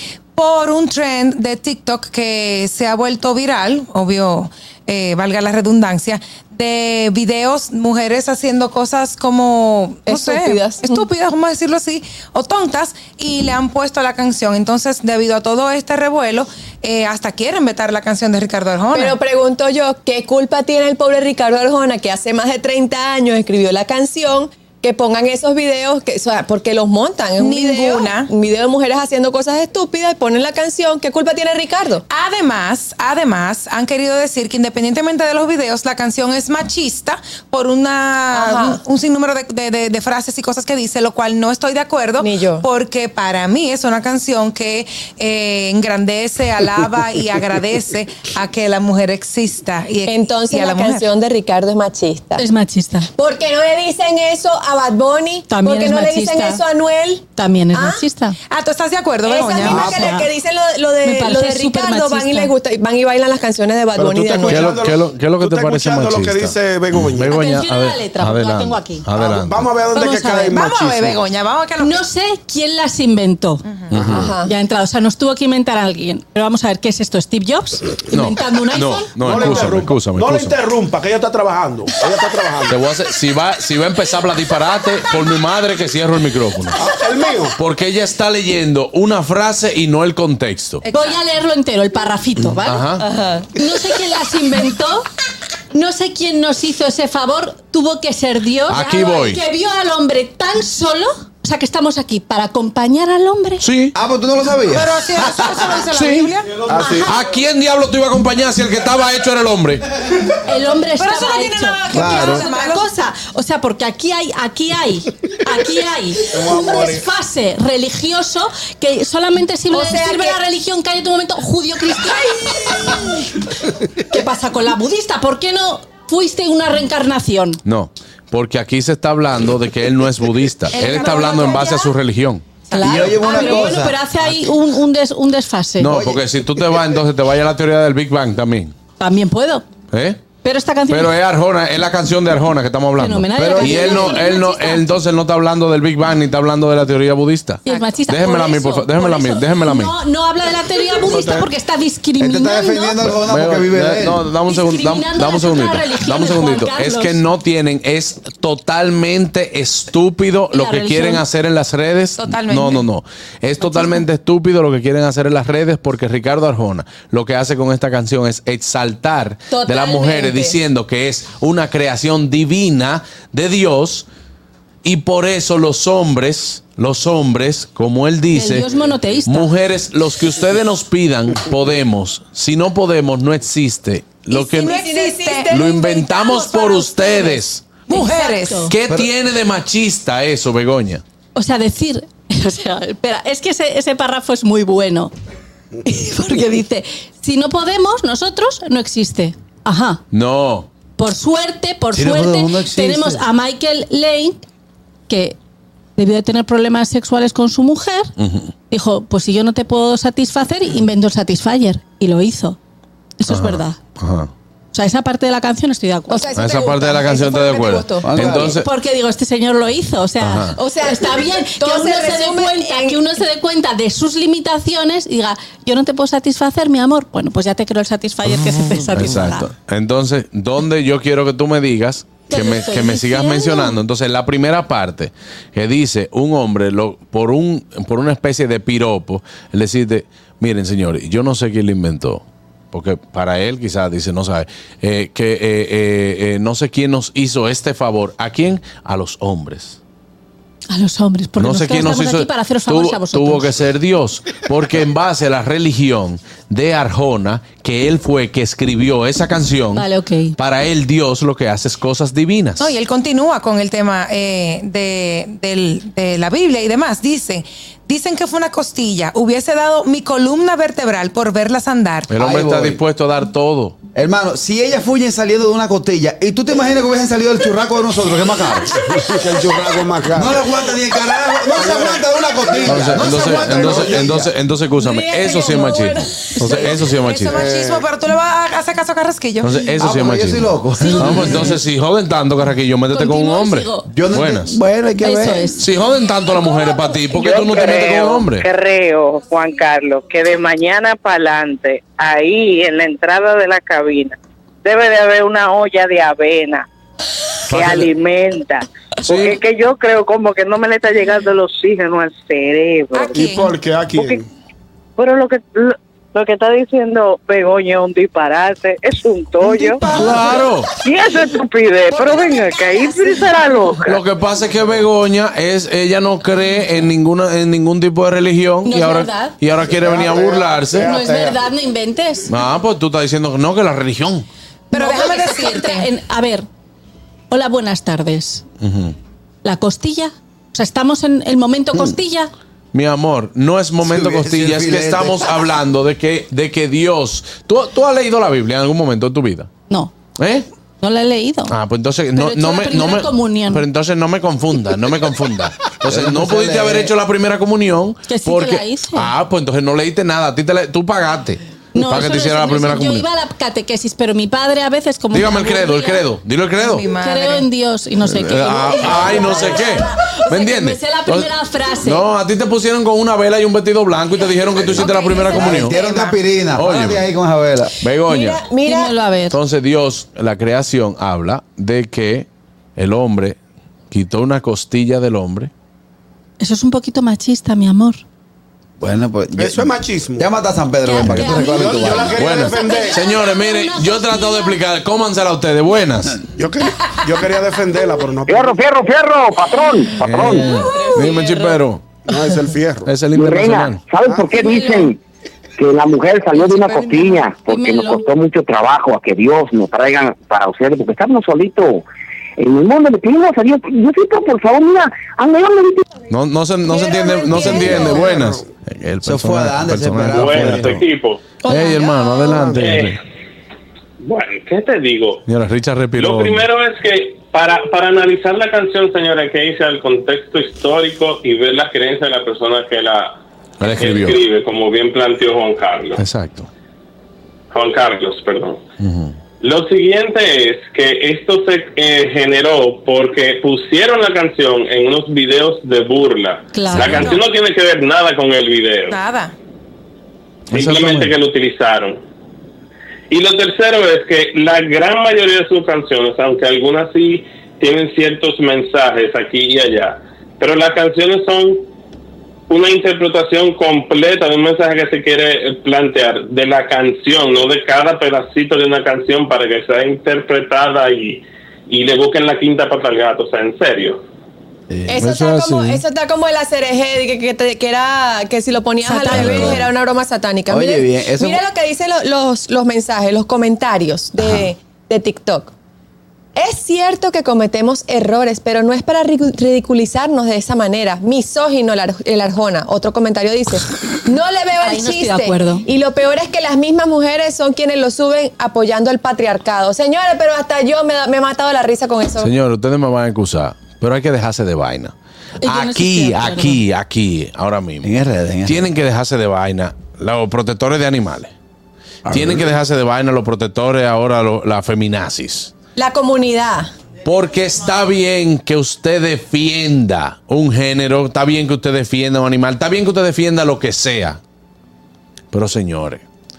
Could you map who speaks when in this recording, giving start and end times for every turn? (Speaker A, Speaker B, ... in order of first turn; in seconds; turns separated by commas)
Speaker A: 0.3-19.2, Speaker B: 10.1-11.0, Speaker B: 18.9-32.0, Speaker A: 27.4-28.3, Speaker A: 32.1-51.1, Speaker B: 38.3-38.8, Speaker B: 42.2-42.6, Speaker B: 50.0-52.5, Speaker C: 52.4-53.1, Speaker B: 53.1-58.0, Speaker C: 55.5-56.6, Speaker C: 57.4-58.4, Speaker A: 58.5-59.9, Speaker B: 59.2-64.7, Speaker C: 59.6-60.3, Speaker D: 59.7-60.1, Speaker C: 61.0-62.5, Speaker D: 63.9-67.3, Speaker E: 64.5-69.7, Speaker C: 67.3-69.1, Speaker D: 69.1-71.2, Speaker C: 69.9-70.5, Speaker A: 70.0-72.0, Speaker C: 71.8-73.6, Speaker A: 73.7-73.9, Speaker E: 73.9-74.3, Speaker D: 73.9-74.3, Speaker B: 74.1-74.5, Speaker C: 74.4-79.7, Speaker E: 78.1-80.6, Speaker D: 79.2-82.7, Speaker E: 82.7-86.8, Speaker D: 86.8-87.5, Speaker E: 87.6-90.8, Speaker A: 90.8-91.2, Speaker C: 90.9-93.0, Speaker E: 92.5-93.0, Speaker B: 93.0-93.4, Speaker C: 93.5-95.1, Speaker C: 95.7-103.6, Speaker E: 98.7-99.4, Speaker E: 103.6-103.9, Speaker F: 103.9-105.4, Speaker A: 104.6-106.6, Speaker E: 105.9-106.3, Speaker D: 106.6-107.1, Speaker C: 106.7-107.2, Speaker E: 107.0-109.9, Speaker C: 110.4-123.1, Speaker A: 110.9-112.9, Speaker F: 111.9-112.4, Speaker D: 116.3-117.0, Speaker B: 119.7-120.4, Speaker C: 124.1-127.6, Speaker E: 127.6-132.5, Speaker A: 130.7-131.9, Speaker B: 130.8-131.3, Speaker A: 132.7-133.4, Speaker C: 132.7-136.0, Speaker F: 132.8-134.0, Speaker E: 135.8-138.8, Speaker F: 135.8-136.2, Speaker C: 139.0-139.7, Speaker E: 139.9-140.2, Speaker C: 140.4-141.1, Speaker E: 140.9-149.9, Speaker C: 143.0-144.9, Speaker C: 147.6-153.0, Speaker F: 152.2-154.2, Speaker E: 153.0-174.1, Speaker C: 154.4-157.2, Speaker C: 160.5-161.2, Speaker A: 162.2-162.9, Speaker B: 169.5-170.6, Speaker E: 174.8-178.7, Speaker C: 178.3-179.5, Speaker E: 179.2-184.8, Speaker B: 184.3-186.4, Speaker A: 184.5-187.3, Speaker E: 185.5-187.6, Speaker C: 187.9-188.7, Speaker A: 187.9-188.7, Speaker E: 188.7-191.0, Speaker C: 191.3-195.1, Speaker C: 195.8-200.0, Speaker E: 200.1-200.7, Speaker C: 201.0-204.4, Speaker F: 201.9-203.2, Speaker C: 205.1-205.4, Speaker C: 206.0-208.1, Speaker E: 208.2-208.5, Speaker C: 208.7-212.6, Speaker C: 213.2-213.8, Speaker E: 213.3-214.3, Speaker C: 214.7-216.3, Speaker B: 216.1-218.1, Speaker E: 216.3-218.7, Speaker F: 218.0-218.6, Speaker C: 218.3-229.5, Speaker E: 220.2-220.6, Speaker B: 220.6-223.2, Speaker E: 228.3-249.8, Speaker C: 232.3-233.8, Speaker C: 250.7-253.6, Speaker E: 251.4-259.9, Speaker C: 259.7-260.4, Speaker E: 260.4-262.7, Speaker A: 262.6-272.1, Speaker E: 272.1-273.8, Speaker F: 272.1-272.8, Speaker F: 273.9-278.9, Speaker D: 278.9-280.4, Speaker F: 280.1-284.3, Speaker D: 281.5-284.1, Speaker E: 282.6-287.4, Speaker C: 284.8-286.7, Speaker A: 286.4-289.6, Speaker D: 287.3-287.9, Speaker E: 289.4-294.6, Speaker F: 289.8-291.6, Speaker C: 290.8-291.5, Speaker C: 292.9-293.9, Speaker F: 293.9-295.6, Speaker C: 295.0-295.6, Speaker E: 295.6-298.5, Speaker G: 297.1-306.7, Speaker G: 307.5-313.4, Speaker E: 307.5-307.9, Speaker E: 309.0-309.4, Speaker A: 312.9-313.5, Speaker D: 313.1-314.2, Speaker G: 313.9-314.2, Speaker G: 315.0-320.2, Speaker E: 319.9-320.7, Speaker G: 320.8-324.0, Speaker B: 322.1-322.8, Speaker E: 323.9-330.9, Speaker C: 328.6-329.4, Speaker D: 329.6-331.4, Speaker C: 330.8-332.3, Speaker E: 332.3-334.2, Speaker A: 334.7-335.9, Speaker C: 334.7-336.4, Speaker C: 337.3-338.4, Speaker E: 338.6-338.9, Speaker C: 339.4-342.3, Speaker E: 342.7-349.5, Speaker F: 343.8-345.3, Speaker E: 350.2-350.5, Speaker C: 350.8-351.5, Speaker E: 351.5-363.1, Speaker C: 352.1-353.6, Speaker F: 355.9-356.9, Speaker C: 358.1-359.1, Speaker C: 361.7-366.1, Speaker E: 365.1-366.9, Speaker A: 366.6-367.5, Speaker C: 366.8-372.1, Speaker E: 368.0-371.3, Speaker E: 371.8-375.8, Speaker F: 374.6-377.7, Speaker A: 374.7-376.1, Speaker E: 376.6-377.0, Speaker E: 377.8-378.4, Speaker B: 378.1-378.9, Speaker C: 378.6-379.4, Speaker E: 379.3-383.4, Speaker E: 383.9-385.5, Speaker C: 386.4-388.0, Speaker F: 388.8-392.2, Speaker D: 389.4-390.3, Speaker C: 390.8-394.6, Speaker D: 391.2-393.0, Speaker E: 392.2-396.2, Speaker D: 396.4-398.6, Speaker H: 398.3-400.6, Speaker E: 400.0-401.8, Speaker C: 400.8-401.4, Speaker D: 402.1-402.9, Speaker E: 402.9-403.8, Speaker H: 403.1-405.0, Speaker C: 404.3-404.9, Speaker H: 405.6-411.8, Speaker A: 406.4-407.2, Speaker C: 407.4-408.1, Speaker H: 412.4-415.8, Speaker E: 416.1-420.7, Speaker C: 417.3-418.0, Speaker D: 417.5-418.4, Speaker F: 419.0-420.8, Speaker I: 420.1-421.2, Speaker E: 421.4-423.0, Speaker C: 421.4-422.4, Speaker D: 422.4-422.6, Speaker I: 422.6-423.0, Speaker I: 424.0-425.2, Speaker E: 425.2-426.4, Speaker I: 425.9-436.0, Speaker E: 433.6-434.2, Speaker E: 436.0-436.5, Speaker I: 437.5-438.6, Speaker E: 438.8-439.1, Speaker I: 439.4-449.0, Speaker C: 446.5-447.2, Speaker E: 446.7-447.2, Speaker A: 448.9-449.3, Speaker I: 450.5-452.0, Speaker E: 450.5-450.8, Speaker F: 450.5-451.1, Speaker I: 453.1-461.6, Speaker I: 462.5-474.0, Speaker F: 474.7-475.0, Speaker B: 474.9-485.5, Speaker E: 474.9-475.8, Speaker C: 478.8-479.6, Speaker E: 479.1-479.6, Speaker F: 479.2-479.6, Speaker F: 480.5-481.4, Speaker F: 484.2-484.5, Speaker B: 486.4-502.3, Speaker C: 494.6-495.6, Speaker E: 502.2-507.9, Speaker C: 505.4-506.6, Speaker F: 507.8-508.7, Speaker E: 508.4-511.3, Speaker D: 512.1-512.4, Speaker E: 512.1-515.5, Speaker B: 515.8-516.7, Speaker E: 517.0-524.2, Speaker E: 525.3-526.0